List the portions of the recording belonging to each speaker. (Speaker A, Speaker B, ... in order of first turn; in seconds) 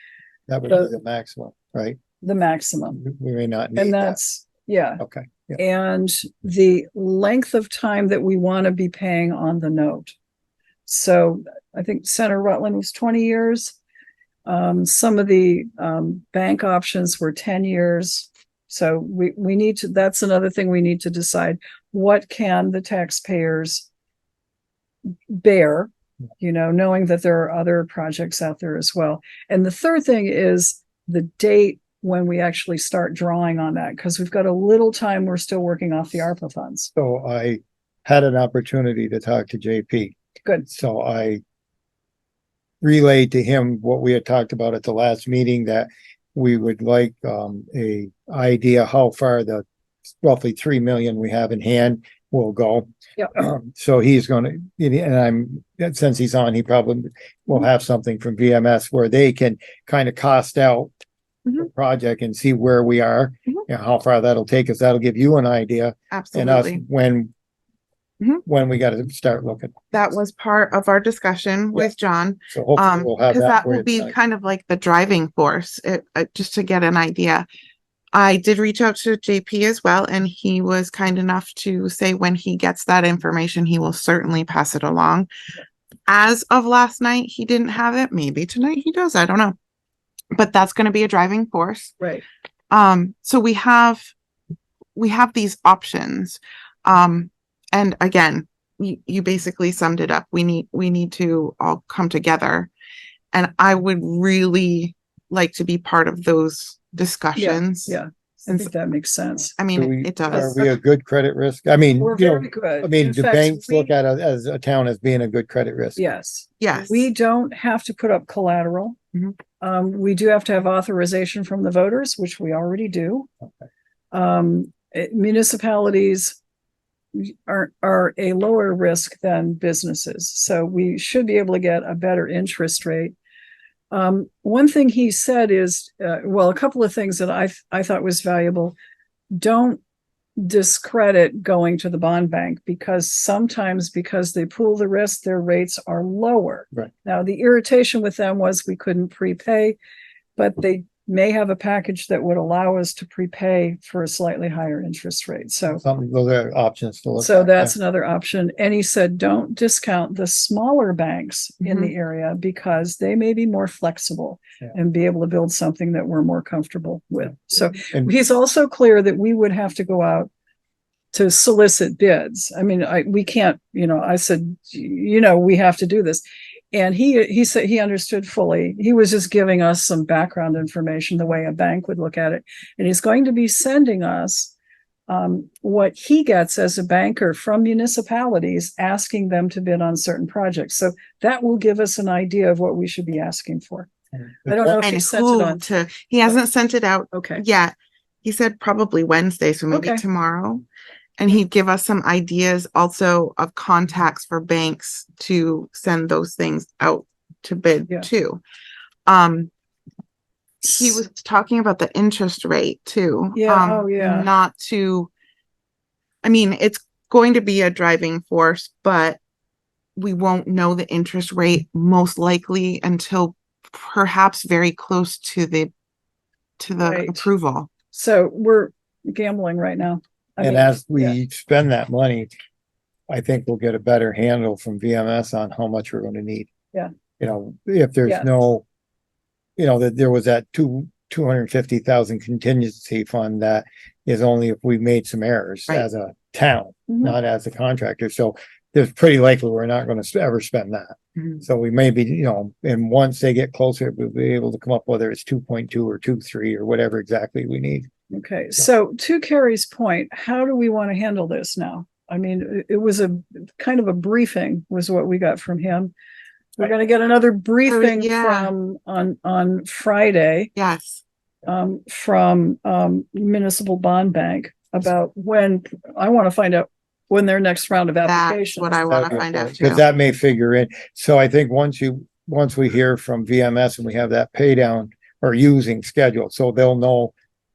Speaker A: 0.5-2.0, 3.0-4.2, 5.0-5.6, 37.0-40.1, 40.7-41.4, 42.8-49.6, 50.2-60.9, 61.5-67.3, 68.5-69.8, 72.5-74.1, 109.7-116.0, 155.7-157.7, 194.4-194.8, 230.4-232.3, 233.1-236.5, 237.2-238.6, 239.6-257.9, 278.9-287.1
Speaker B: 2.2-3.0, 3.8-5.0, 5.6-10.1, 10.9-13.8, 14.5-23.9, 25.3-36.9, 107.3-109.6, 110.3-110.6, 112.0-113.9, 116.0-119.0, 119.6-123.3, 124.1-126.4, 127.1-133.1, 133.9-138.8, 139.3-139.8, 140.4-149.8, 150.3-155.8, 157.2-170.3, 171.1-184.5, 185.1-193.9, 194.4-195.7, 197.1-197.4, 199.7-200.0, 213.3-214.3, 226.8-227.3, 227.9-231.1, 246.9-247.2, 258.1-265.9, 266.6-270.5, 271.5-278.9
Speaker C: 66.1-66.8, 69.9-77.5, 78.1-85.3, 86.1-89.6, 90.3-92.0, 92.7-94.1, 95.0-102.7, 103.3-108.7, 109.6-110.6, 116.6-117.1, 161.6-161.9, 194.7-200.6, 201.2-208.4, 209.1-209.5, 210.6-215.1, 216.2-219.2, 220.0-225.7, 226.6-227.7, 267.7-268.5, 270.6-271.0, 278.1-279.9